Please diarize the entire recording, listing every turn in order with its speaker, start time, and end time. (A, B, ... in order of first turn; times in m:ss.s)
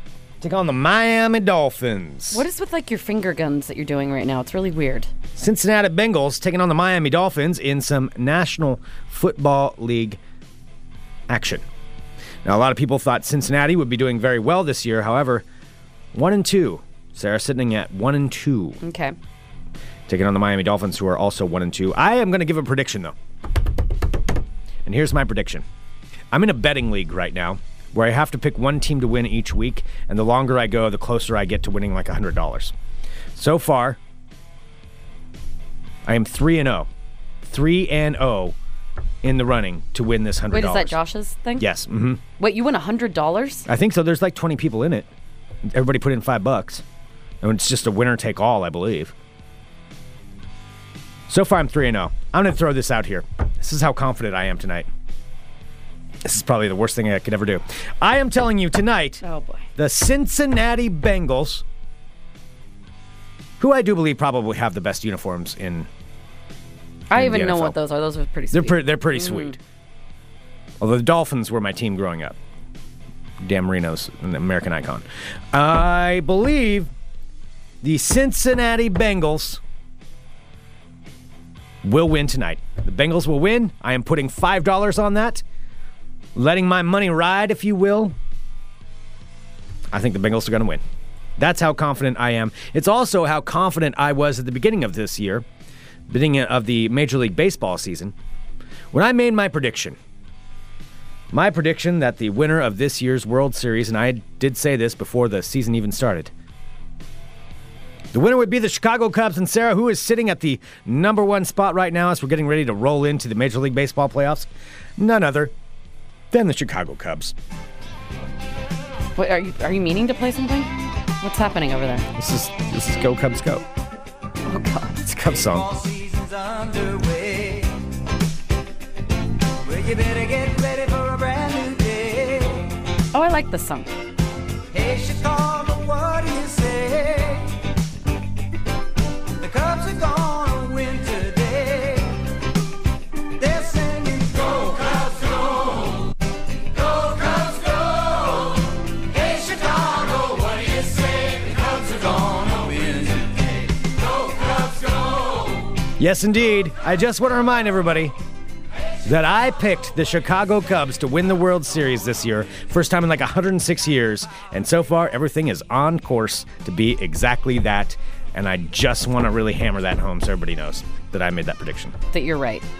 0:00.4-0:02.4 A
0:02.3-0:05.1 B
0:05.4-0:10.2 A
0:11.3-0:11.6 A
0:12.4-0:15.4 A
0:16.1-0:18.8 A
0:18.8-0:19.1 B
0:20.1-0:23.1 A
0:24.8-0:25.6 A
0:26.3-0:32.7 A
0:33.4-0:34.0 A
0:36.0-0:36.9 A
0:37.5-0:38.6 A
0:39.2-0:41.0 A
0:40.5-0:41.7 B
0:41.6-0:42.2 A
0:42.4-0:43.7 B
0:43.7-0:45.1 A
0:45.7-0:46.8 A
0:47.4-0:49.1 A
0:51.3-0:54.9 A
0:56.2-0:59.2 A
0:59.2-0:59.7 B
0:59.8-1:01.6 A
1:03.6-1:05.9 A
1:07.1-1:09.6 B
1:07.1-1:07.8 A
1:08.5-1:09.6 A
1:10.8-1:12.4 A
1:13.4-1:16.9 A
1:17.8-1:19.6 A
1:21.8-1:25.4 A
1:26.3-1:28.1 A
1:29.9-1:30.8 A
1:31.4-1:35.4 A
1:36.1-1:38.1 A
1:38.9-1:40.0 A
1:41.3-1:46.3 A
1:48.1-1:55.5 A
1:56.3-1:57.3 A
1:59.2-2:02.1 B
2:02.2-2:03.6 A
2:04.4-2:05.0 B
2:05.0-2:05.7 A
2:05.2-2:07.8 C
2:09.6-2:12.8 C
2:13.1-2:13.9 B
2:14.7-2:17.6 C
2:19.4-2:22.2 C
2:23.4-2:26.0 C
2:26.8-2:28.5 C
2:29.1-2:33.5 C
2:36.0-2:38.1 A
2:39.0-2:52.0 A
2:52.1-2:52.6 B